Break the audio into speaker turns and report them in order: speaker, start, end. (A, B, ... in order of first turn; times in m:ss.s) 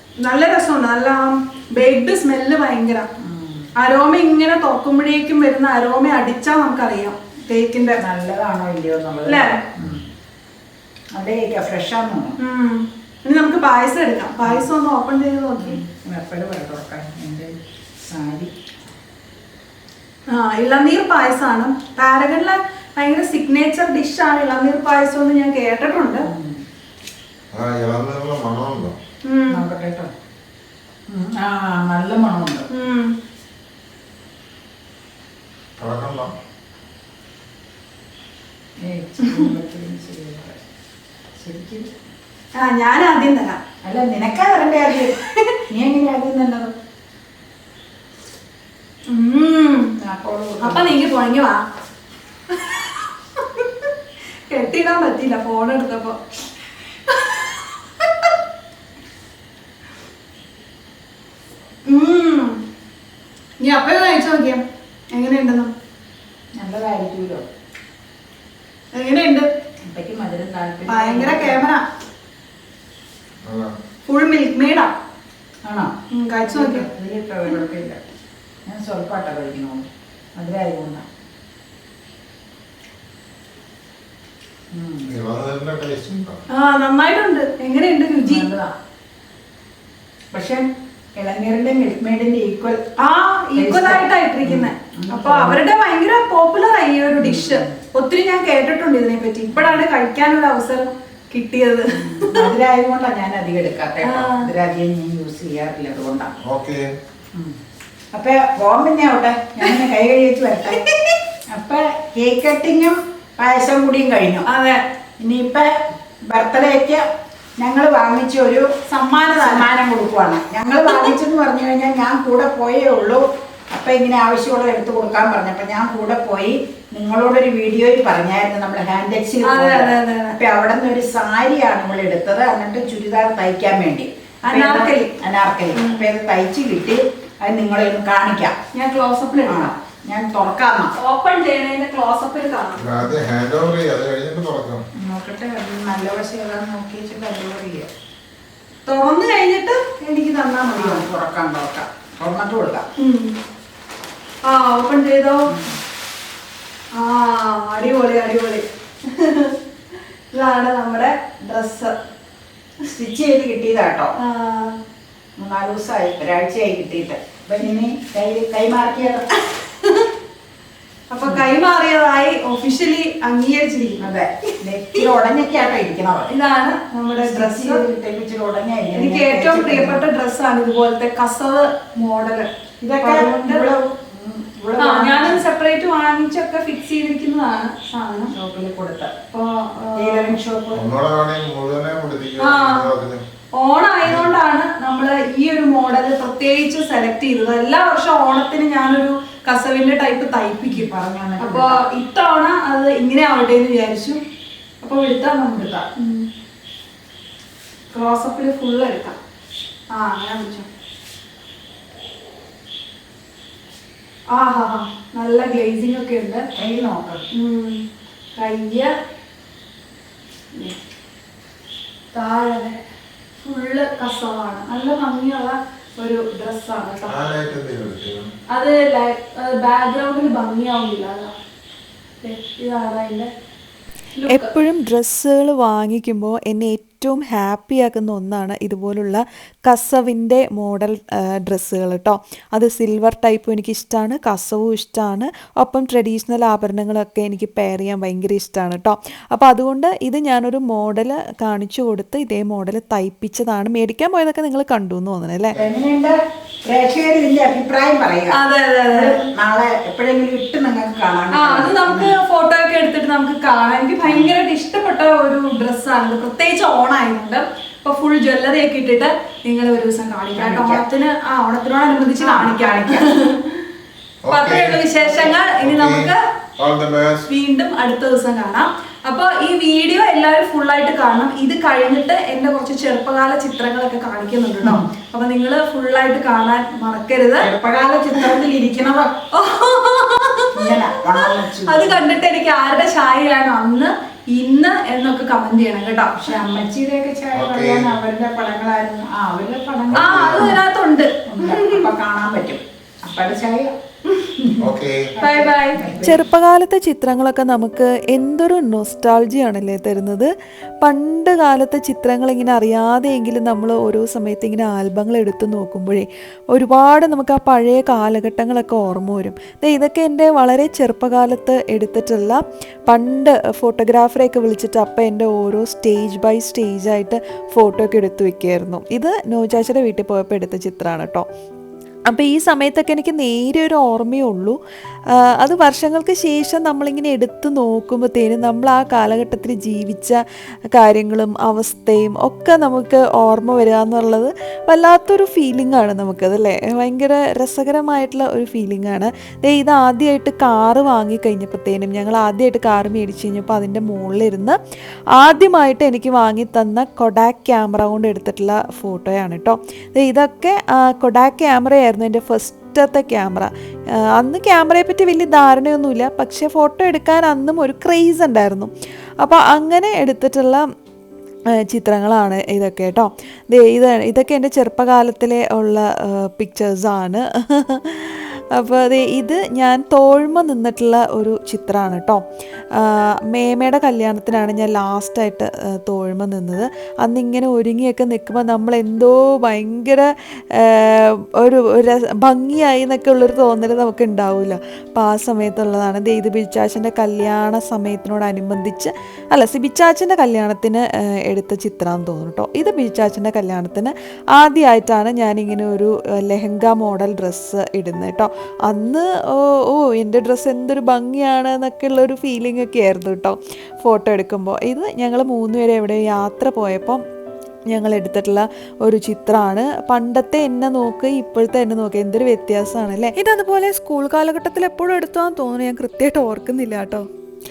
0:00.2-0:03.1 A
0:03.2-0:03.7 B
0:03.8-0:08.0 A
0:08.0-0:10.0 B
0:09.3-0:09.6 A
0:11.1-0:12.4 B
0:12.4-0:15.8 A
0:14.4-0:14.7 B
0:15.6-0:17.6 B
0:18.1-0:18.5 B
0:20.3-0:26.3 A
0:26.2-0:26.6 B
0:27.5-0:29.0 C
0:29.2-0:29.6 A
0:29.5-0:30.1 B
0:31.1-0:32.7 B
0:32.7-0:33.1 A
0:35.8-0:36.3 C
0:38.8-0:40.6 B
0:41.4-0:41.9 B
0:42.6-0:43.6 A
0:43.8-0:45.2 B
0:44.9-0:45.6 A
0:45.7-0:46.7 B
0:49.1-0:49.9 A
0:50.0-0:51.0 B
0:50.6-0:51.6 A
0:52.5-0:53.9 A
0:54.5-0:56.2 A
0:57.1-0:58.3 A
1:01.9-1:02.6 A
1:03.6-1:05.7 A
1:06.6-1:07.4 B
1:08.9-1:09.5 A
1:09.9-1:11.6 B
1:10.9-1:11.8 A
1:13.4-1:13.7 C
1:14.1-1:14.9 A
1:15.7-1:15.9 B
1:16.1-1:16.9 A
1:16.4-1:18.0 B
1:18.7-1:21.0 B
1:24.7-1:25.1 B
1:25.1-1:26.4 C
1:26.5-1:28.5 A
1:28.2-1:28.7 B
1:30.3-1:30.6 B
1:31.2-1:32.8 B
1:33.0-1:42.5 A
1:33.6-1:35.6 B
1:37.2-1:37.8 B
1:39.5-1:39.8 B
1:41.9-1:46.3 B
1:44.0-1:44.5 A
1:46.5-1:46.9 C
1:48.1-1:50.8 B
1:50.8-1:51.2 A
1:51.5-1:54.5 B
1:54.5-1:54.8 A
1:55.2-1:55.7 B
1:56.3-1:57.0 B
1:57.6-2:18.6 B
1:59.1-1:59.6 A
2:09.4-2:10.4 A
2:14.5-2:15.1 A
2:15.7-2:16.1 A
2:18.7-2:19.7 A
2:19.5-2:20.9 B
2:21.0-2:22.8 A
2:22.8-2:24.8 C
2:25.0-2:27.9 B
2:28.9-2:31.0 A
2:30.8-2:32.8 B
2:33.0-2:33.4 A
2:34.4-2:35.5 A
2:37.0-2:39.6 A
2:40.3-2:42.0 A
2:42.9-2:44.1 B
2:44.2-2:44.8 A
2:45.4-2:49.2 B
2:49.6-2:50.1 A
2:51.1-2:54.1 A
2:54.0-2:56.3 B
2:56.3-2:57.8 A
2:57.2-3:00.0 B
2:59.0-3:02.5 A
3:02.8-3:05.4 B
3:03.0-3:03.6 A
3:04.8-3:08.3 A
3:08.3-3:09.1 B
3:09.3-3:10.4 A
3:10.0-3:10.8 B
3:10.7-3:13.2 C
3:12.4-3:12.9 A
3:13.6-3:20.9 A
3:20.6-3:21.8 B
3:21.4-3:24.2 A
3:24.8-3:26.3 A
3:27.9-3:29.2 A
3:29.9-3:30.7 A
3:34.3-3:36.4 A
3:36.6-3:37.2 B
3:37.3-3:37.8 A
3:38.4-3:38.9 A
3:42.1-3:42.8 A
3:43.4-3:47.2 A
3:47.1-3:48.3 C
3:48.5-3:51.3 A
3:52.2-3:53.3 A
3:54.2-3:54.5 A
3:54.3-4:15.6 D
4:15.6-4:18.4 B
4:18.4-4:19.2 A
4:18.9-4:22.1 B
4:21.4-4:33.5 A
4:24.1-4:24.3 B
4:30.3-4:30.9 B
4:32.2-4:33.1 B
4:34.2-4:34.8 C
4:34.3-4:36.2 A
4:35.0-4:35.4 B
4:35.6-4:37.3 C
4:37.3-4:47.5 A
4:47.4-4:49.1 B
4:49.3-4:50.5 A
4:50.6-4:52.1 B
4:51.7-4:56.3 A
4:56.2-5:00.6 B
4:57.3-4:57.9 C
4:59.9-5:00.6 C
5:00.0-5:01.8 A
5:01.3-5:04.6 B
5:04.6-5:05.0 C
5:05.2-5:06.2 B
5:05.2-5:05.8 A
5:06.0-5:10.3 D
5:10.8-5:31.2 D
5:32.1-5:34.6 D
5:35.4-5:40.2 D
5:40.8-5:54.6 D
5:55.2-6:03.5 D
6:04.2-6:10.6 D
6:11.7-6:22.2 D
6:22.8-6:57.0 D
6:57.7-7:07.0 D